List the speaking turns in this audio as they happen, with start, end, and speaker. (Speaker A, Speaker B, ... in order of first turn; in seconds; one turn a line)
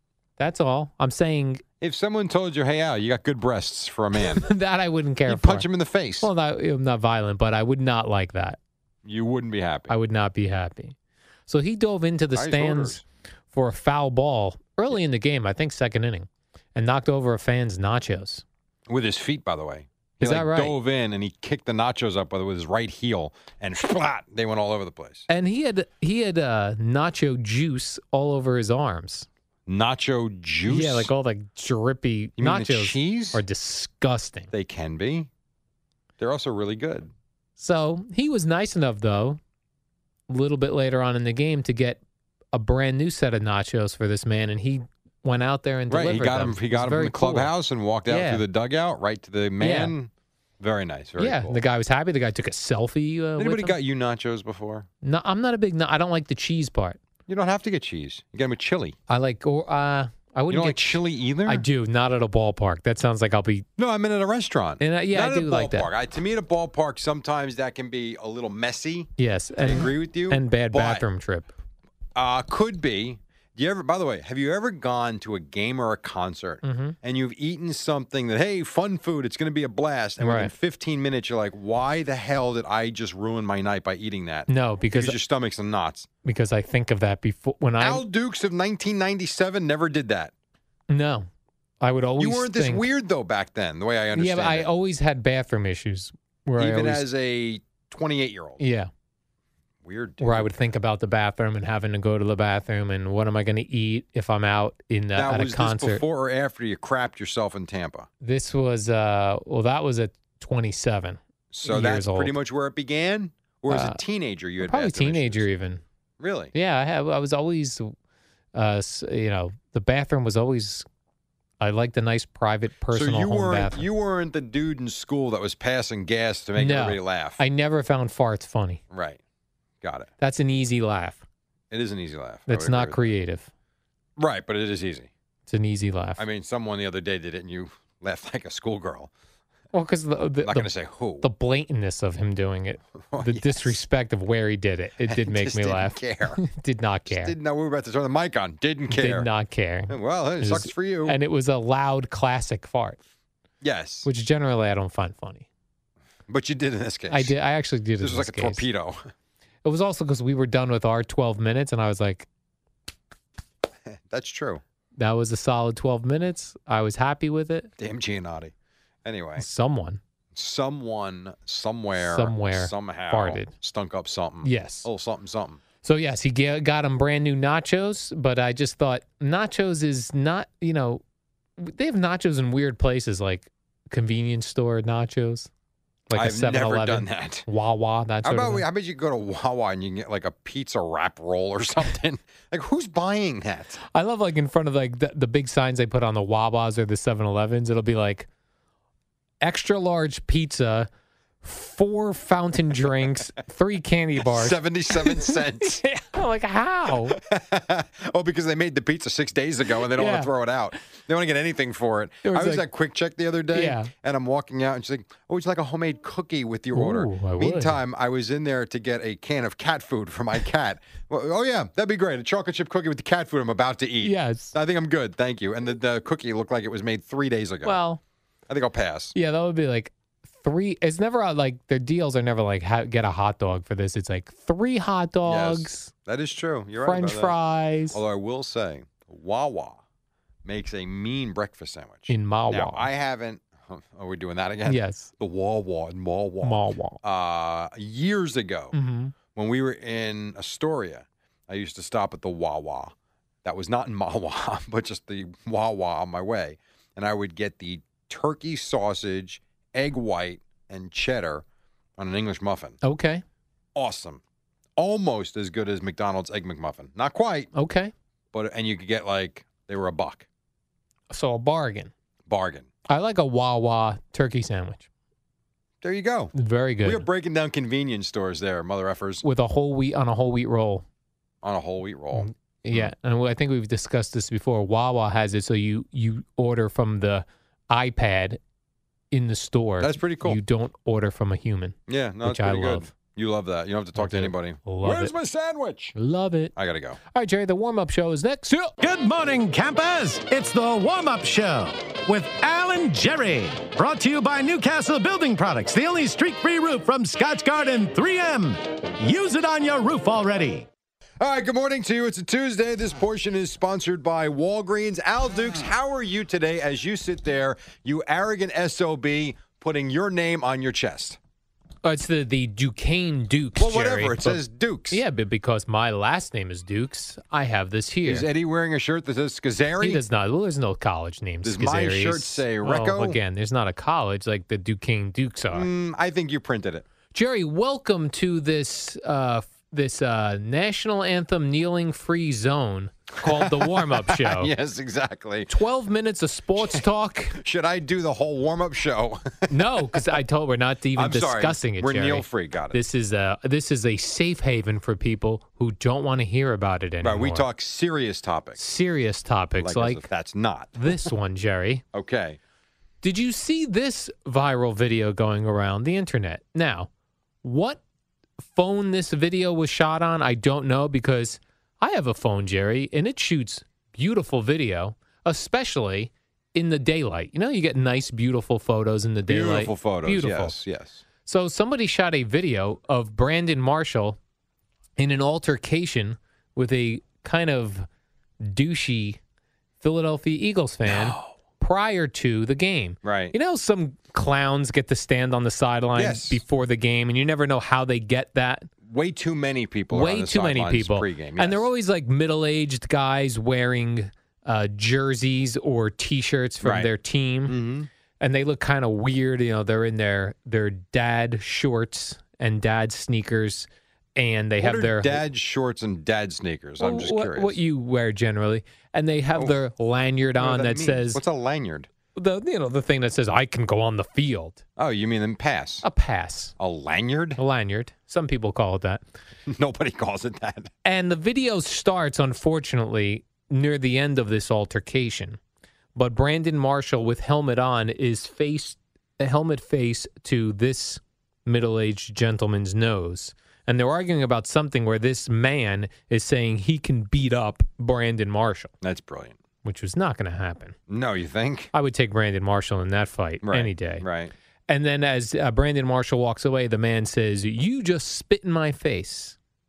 Speaker A: 0.4-1.6
Speaker B: 1.8-4.5
Speaker A: 4.2-5.7
Speaker B: 5.3-6.3
Speaker A: 6.2-8.6
Speaker B: 9.0-9.9
Speaker A: 9.9-10.9
Speaker A: 11.5-13.0
Speaker B: 12.3-13.0
Speaker A: 13.5-18.4
Speaker B: 18.9-25.2
Speaker A: 20.2-20.7
Speaker A: 25.3-29.3
Speaker B: 29.7-31.1
Speaker A: 30.7-34.5
Speaker B: 32.4-33.4
Speaker B: 34.5-35.3
Speaker B: 36.2-37.1
Speaker A: 37.6-39.4
Speaker A: 40.3-42.0
Speaker A: 42.5-47.5
Speaker B: 45.9-51.6
Speaker A: 48.1-48.4
Speaker A: 49.6-49.9
Speaker A: 51.2-53.8
Speaker B: 53.4-54.9
Speaker A: 55.0-57.0
Speaker B: 57.3-59.0
Speaker A: 59.1-63.6
Speaker B: 60.5-61.6
Speaker B: 63.8-71.0
Speaker A: 64.8-65.9
Speaker A: 69.2-71.5
Speaker B: 72.1-86.1
Speaker A: 76.6-77.0
Speaker A: 80.2-80.5
Speaker A: 84.5-85.2
Speaker A: 86.2-88.0
Speaker B: 87.8-90.3
Speaker A: 90.9-91.3
Speaker A: 91.8-92.9
Speaker B: 92.2-94.7
Speaker A: 94.1-97.0
Speaker B: 96.6-98.6
Speaker A: 98.6-98.9
Speaker B: 99.8-100.7
Speaker A: 100.2-106.0
Speaker B: 105.2-108.1
Speaker A: 108.2-112.3
Speaker B: 111.5-115.5
Speaker A: 113.7-114.0
Speaker A: 114.6-115.8
Speaker B: 116.2-116.5
Speaker A: 116.5-117.9
Speaker A: 118.5-120.8
Speaker A: 121.6-123.8
Speaker B: 122.9-127.4
Speaker A: 126.5-128.8
Speaker B: 128.9-129.2
Speaker B: 129.8-130.1
Speaker A: 130.2-131.2
Speaker B: 131.7-133.1
Speaker A: 132.5-133.5
Speaker B: 134.2-135.1
Speaker A: 135.5-136.2
Speaker B: 136.2-139.1
Speaker A: 139.7-140.7
Speaker B: 140.4-141.3
Speaker A: 141.2-147.3
Speaker B: 143.1-143.8
Speaker B: 145.1-146.4
Speaker B: 147.1-149.3
Speaker A: 148.9-153.0
Speaker B: 149.9-151.2
Speaker B: 153.6-154.1
Speaker A: 154.0-155.4
Speaker B: 156.3-157.3
Speaker A: 157.1-158.6
Speaker B: 158.0-159.1
Speaker A: 159.6-162.3
Speaker B: 163.9-164.6
Speaker A: 165.0-167.7
Speaker B: 167.8-168.5
Speaker B: 169.0-169.4
Speaker A: 169.4-170.0
Speaker B: 170.3-175.6
Speaker A: 172.0-173.5
Speaker A: 174.4-174.9
Speaker A: 175.8-181.0
Speaker A: 181.6-185.5
Speaker A: 186.1-188.6
Speaker B: 186.1-187.5
Speaker B: 188.2-193.8
Speaker A: 193.9-198.3
Speaker A: 199.4-200.9
Speaker A: 201.4-207.2
Speaker B: 204.2-205.8
Speaker B: 207.1-227.8
Speaker A: 209.9-210.3
Speaker A: 212.2-212.6
Speaker A: 213.5-213.9
Speaker A: 216.7-217.8
Speaker A: 224.0-224.5
Speaker A: 227.6-228.0
Speaker B: 228.5-229.1
Speaker A: 229.1-235.9
Speaker B: 235.2-237.3
Speaker A: 236.8-238.0
Speaker B: 237.9-239.8
Speaker B: 240.4-248.8
Speaker A: 242.1-242.9
Speaker A: 244.7-245.1
Speaker A: 246.4-247.0
Speaker A: 248.7-249.1
Speaker B: 249.3-252.9
Speaker B: 253.4-261.4
Speaker B: 262.0-262.8
Speaker A: 262.8-263.2
Speaker B: 263.7-264.2
Speaker B: 264.8-267.5
Speaker A: 267.5-267.9
Speaker B: 268.3-270.2
Speaker A: 271.1-271.9
Speaker B: 272.3-272.7
Speaker A: 272.9-274.9
Speaker B: 275.8-279.2
Speaker A: 276.3-277.0
Speaker A: 279.2-280.8
Speaker B: 281.4-282.9
Speaker A: 282.1-288.4
Speaker A: 289.1-292.9
Speaker B: 289.8-290.4
Speaker B: 291.9-295.9
Speaker A: 293.9-295.1
Speaker A: 295.9-296.5
Speaker B: 296.6-297.0
Speaker A: 297.1-298.7
Speaker C: 298.8-310.6
Speaker B: 311.2-321.2
Speaker A: 321.8-324.4
Speaker B: 323.6-325.0
Speaker A: 324.9-328.3
Speaker B: 328.1-330.0
Speaker A: 329.8-335.7
Speaker B: 331.4-333.2
Speaker B: 335.5-336.8
Speaker A: 337.1-344.5
Speaker B: 343.2-345.5
Speaker A: 345.5-347.4
Speaker B: 347.4-350.0
Speaker A: 349.5-357.5
Speaker B: 350.9-352.8
Speaker B: 357.0-358.6
Speaker A: 358.6-360.0
Speaker B: 359.6-361.1
Speaker A: 360.8-361.8
Speaker B: 361.9-362.4
Speaker A: 363.0-366.9
Speaker A: 367.4-367.8
Speaker A: 368.4-380.5
Speaker B: 379.3-381.0
Speaker A: 381.2-384.2
Speaker A: 385.0-387.9
Speaker A: 388.4-389.2
Speaker A: 389.8-398.7
Speaker B: 390.9-391.3
Speaker B: 393.0-393.3
Speaker B: 395.9-396.4
Speaker B: 398.9-401.7
Speaker A: 399.9-407.6
Speaker B: 406.6-406.9
Speaker B: 407.5-407.9
Speaker A: 408.2-415.2
Speaker B: 414.6-417.6
Speaker A: 416.8-421.2
Speaker B: 420.4-421.9
Speaker A: 422.1-424.6
Speaker B: 424.8-425.9
Speaker A: 425.8-426.5
Speaker B: 426.6-427.4
Speaker A: 427.4-429.0
Speaker B: 429.5-430.7
Speaker A: 430.8-435.4
Speaker A: 435.9-448.7
Speaker B: 448.8-449.3
Speaker A: 449.6-450.7
Speaker B: 450.9-451.7
Speaker A: 451.7-454.0
Speaker B: 453.4-454.3
Speaker A: 454.7-459.4